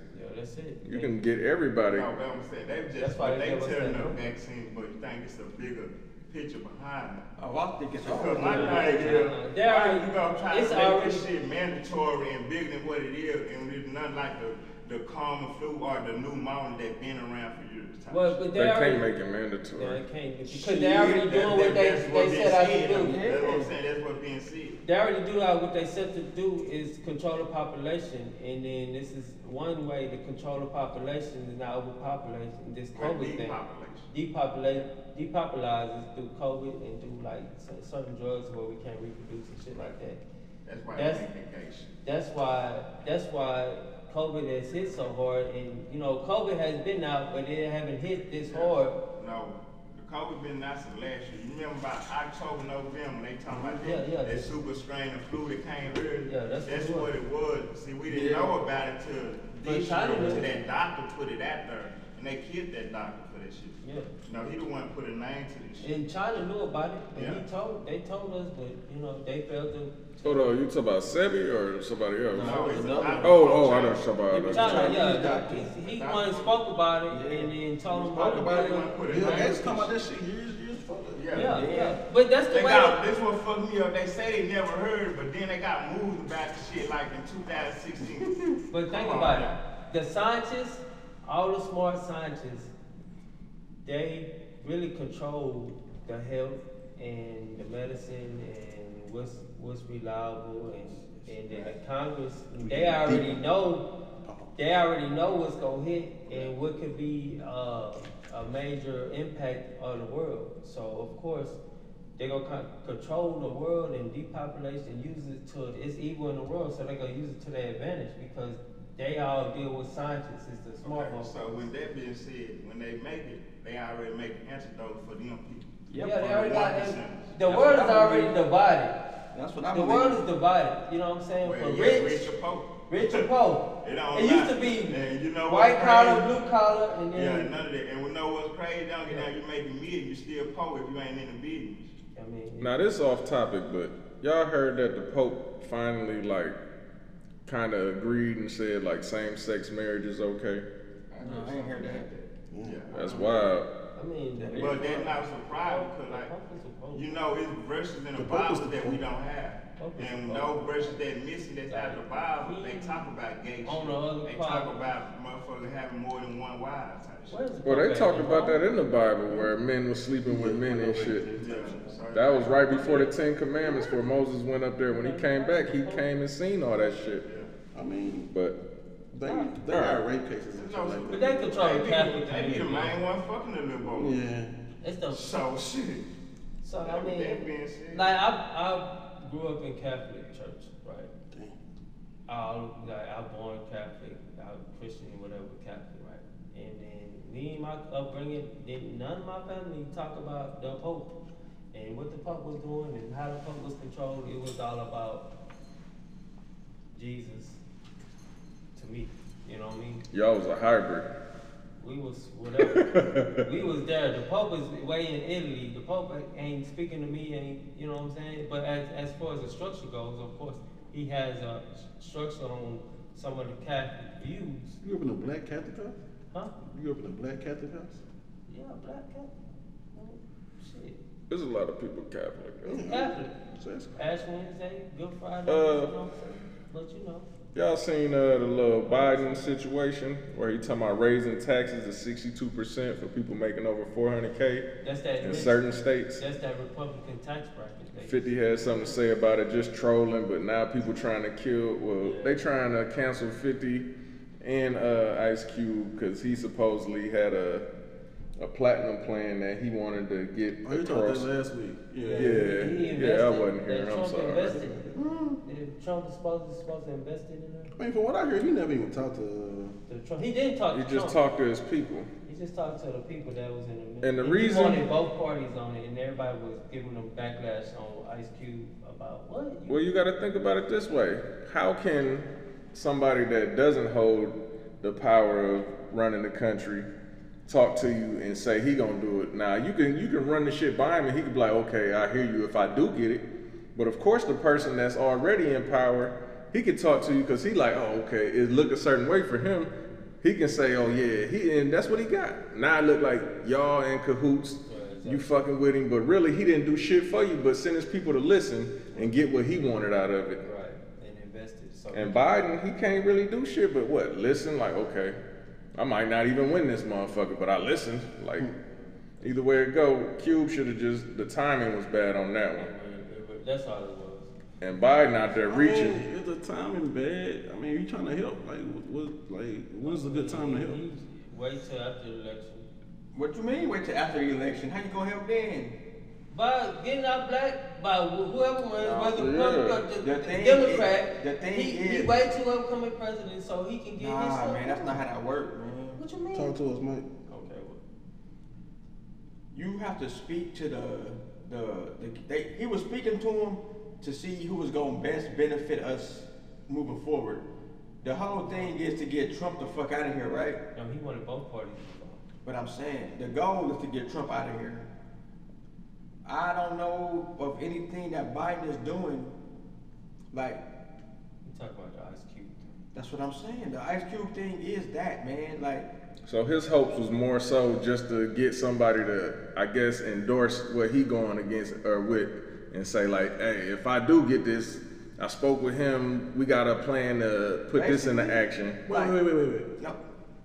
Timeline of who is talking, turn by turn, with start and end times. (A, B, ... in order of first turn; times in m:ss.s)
0:00.1-0:01.1 A
0:00.8-0:02.1 B
0:01.9-0:07.2 C
0:03.0-0:04.2 A
0:07.4-0:09.3 D
0:08.0-0:18.4 C
0:08.1-0:11.3 A
0:18.1-0:19.1 A
0:18.5-0:20.0 B
0:19.8-0:23.2 A
0:20.5-0:21.3 D
0:21.0-0:24.8 C
0:22.9-0:23.7 D
0:24.8-0:33.6 A
0:32.9-0:34.1 C
0:34.1-0:40.2 A
0:40.6-0:42.0 C
0:40.9-0:41.2 A
0:42.0-0:49.0 A
0:48.5-1:05.9 C
0:53.6-0:54.5 A
0:56.2-0:57.1 A
0:58.1-0:58.6 D
0:59.6-1:00.5 A
1:03.8-1:04.1 A
1:05.8-1:10.6 A
1:07.1-1:07.4 C
1:10.2-1:12.7 B
1:12.3-1:15.7 D
1:12.4-1:14.0 C
1:13.2-1:15.0 B
1:14.4-1:19.6 A
1:15.8-1:16.7 C
1:17.1-1:18.6 D
1:18.1-1:20.0 C
1:19.1-1:21.3 E
1:21.1-1:21.6 C
1:21.3-1:23.0 A
1:21.4-1:22.0 D
1:22.5-1:29.6 C
1:28.7-1:32.7 A
1:33.8-1:43.9 A
1:41.1-1:41.7 D
1:42.6-1:43.4 E
1:44.2-1:44.5 E
1:44.6-1:51.6 A
1:52.2-2:01.7 A
2:00.8-2:07.3 C
2:05.9-2:06.6 D
2:06.0-2:09.0 A
2:07.4-2:08.4 D
2:09.3-2:10.2 D
2:09.7-2:12.3 A
2:11.4-2:13.3 C
2:12.9-2:17.5 A
2:13.8-2:16.3 C
2:17.1-2:21.9 C
2:22.1-2:22.8 A
2:22.6-2:26.6 B
2:27.4-2:30.6 B
2:31.1-2:33.5 C
2:31.2-2:32.1 D
2:32.5-2:32.9 E
2:32.9-2:33.7 B
2:33.9-2:37.2 A
2:34.4-2:35.1 D
2:34.6-2:36.3 C
2:36.9-2:47.6 C
2:38.1-2:39.0 E
2:39.8-2:41.0 A
2:41.7-2:43.1 A
2:43.6-2:44.8 A
2:47.3-2:48.7 A
2:47.6-2:51.3 B
2:50.2-2:51.8 E
2:51.4-2:53.1 C
2:52.1-2:57.2 B
2:52.7-2:53.1 A
2:53.6-2:54.0 A
2:54.9-2:56.1 A
2:57.7-2:58.3 E
2:58.3-2:58.6 B
2:59.1-3:01.7 E
2:59.3-3:00.0 B
3:00.5-3:04.2 C
3:01.1-3:03.0 A
3:03.9-3:04.6 E
3:04.8-3:05.3 A
3:05.1-3:06.1 C
3:06.6-3:11.1 A
3:06.8-3:08.1 C
3:11.3-3:11.6 E
3:12.3-3:21.1 A
3:21.7-3:25.3 A
3:26.9-3:27.6 A
3:28.7-3:30.0 A
3:30.1-3:31.1 B
3:31.8-3:44.8 A
3:32.6-3:33.5 B
3:44.8-3:46.0 E
3:46.6-3:48.0 E
3:48.5-3:49.3 A
3:49.9-3:51.0 A
3:51.3-3:52.9 B
3:52.6-3:54.0 E
3:52.8-3:53.3 A
3:54.0-3:57.3 A
3:55.4-3:55.9 B
3:57.5-4:04.7 B
3:58.8-3:59.5 A
4:04.8-4:08.9 A
4:05.2-4:06.2 B
4:08.0-4:13.9 B
4:12.0-4:12.4 A
4:14.4-4:17.6 B
4:18.4-4:21.3 B
4:20.6-4:22.9 E
4:22.0-4:27.7 A
4:22.1-4:24.6 B
4:24.4-4:25.0 E
4:24.9-4:25.4 D
4:27.8-4:29.8 E
4:29.9-4:31.2 A
4:30.7-4:32.1 B
4:32.2-4:39.9 A
4:34.0-4:34.8 B
4:39.7-4:46.9 B
4:47.5-4:59.7 B
5:00.2-5:10.4 B
5:04.7-5:05.2 A
5:10.4-5:12.3 A
5:11.9-5:15.2 B
5:15.8-5:18.5 B
5:18.7-5:19.4 A
5:19.2-5:22.7 B
5:22.5-5:24.3 A
5:24.6-5:26.0 B
5:25.5-5:30.8 E
5:29.8-5:32.7 A
5:33.1-5:35.8 D
5:36.3-5:45.0 A
5:38.8-5:39.8 B
5:40.0-5:42.2 D
5:44.0-5:46.0 D
5:46.0-5:46.6 A
5:46.3-5:47.1 E
5:47.3-5:47.8 A
5:49.5-5:57.4 D
5:58.0-6:00.6 D
5:58.5-5:58.7 A
6:00.7-6:02.2 A
6:02.4-6:04.9 D
6:06.2-6:09.4 D
6:10.3-6:10.6 D
6:11.4-6:12.7 A
6:12.9-6:15.9 D
6:16.2-6:28.8 B
6:27.7-6:29.2 D
6:28.9-6:29.7 E